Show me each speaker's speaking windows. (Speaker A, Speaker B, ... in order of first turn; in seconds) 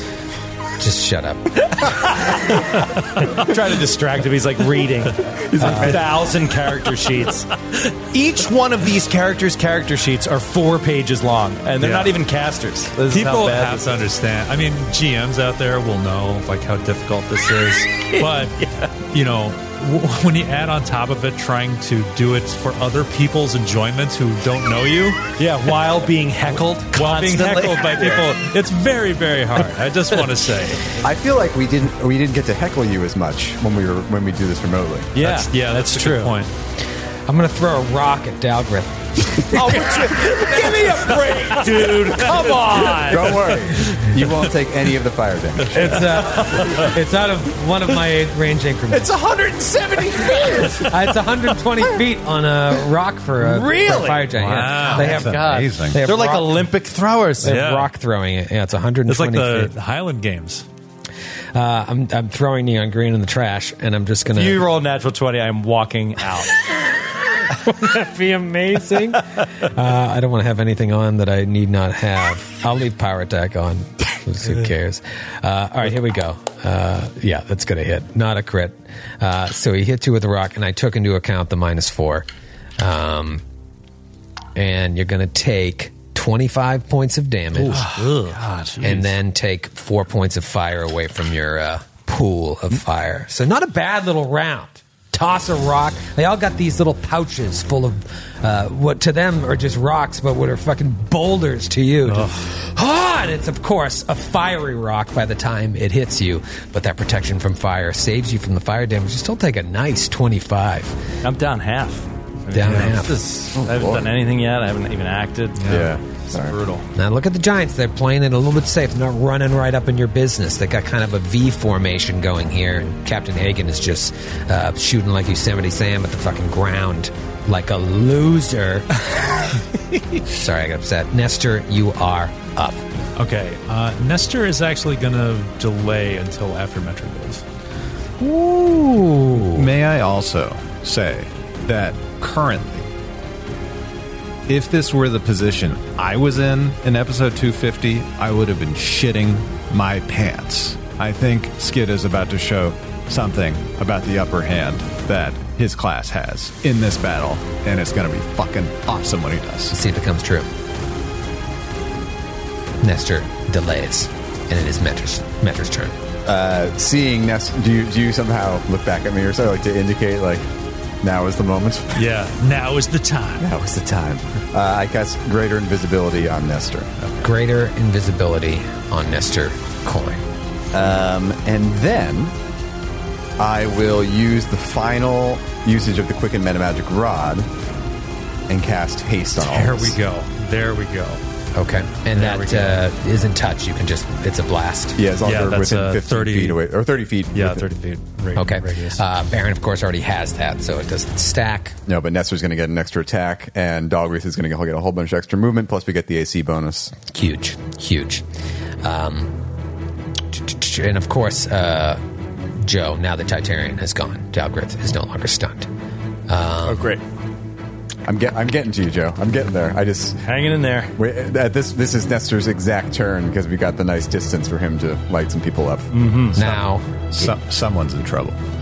Speaker A: 0.8-2.2, 5.6-6.0, 37.3-41.0, 45.7-49.2, 50.2-56.7, 57.4-59.7, 61.5-64.6, 67.6-82.3, 82.8-83.4, 84.5-88.0, 88.8-111.0, 112.5-113.2, 116.9-129.4, 130.3-132.8, 138.2-139.7, 159.7-160.5, 162.8-166.0, 177.2-180.2, 191.6-195.0, 198.3-201.8, 207.0-208.2, 208.8-209.3, 210.3-212.0, 212.6-215.7, 216.3-216.9, 226.4-227.3
Speaker B: 3.3-7.5, 8.1-14.0, 18.1-18.9, 25.4-28.3, 35.1-36.4, 39.5-44.0, 46.4-46.9, 48.9-51.1, 53.4-57.6, 64.3-66.5, 87.7-88.7, 111.2-116.9, 220.2-220.9, 225.9-226.4
Speaker C: 5.5-6.0, 31.0-35.1, 43.1-46.0, 113.5-114.1, 115.7-116.6, 166.3-170.5, 171.0-172.0, 173.4-176.9, 180.7-182.3, 183.4-187.5, 188.5-190.0, 195.0-197.7, 201.9-207.0, 216.7-217.0, 218.1-220.2, 221.0-225.9
Speaker D: 11.8-12.2, 13.1-25.2, 26.9-31.0, 35.2-36.5, 42.5-43.1, 54.4-55.2, 57.4-57.9, 59.1-60.7, 87.6-89.1, 112.6-113.1, 115.6-115.9, 133.2-137.4, 171.9-173.5, 189.4-191.2, 192.1-192.8, 195.2-196.6, 197.3-199.0
Speaker E: 54.5-56.1, 139.4-142.9, 144.5-159.8, 226.3-228.4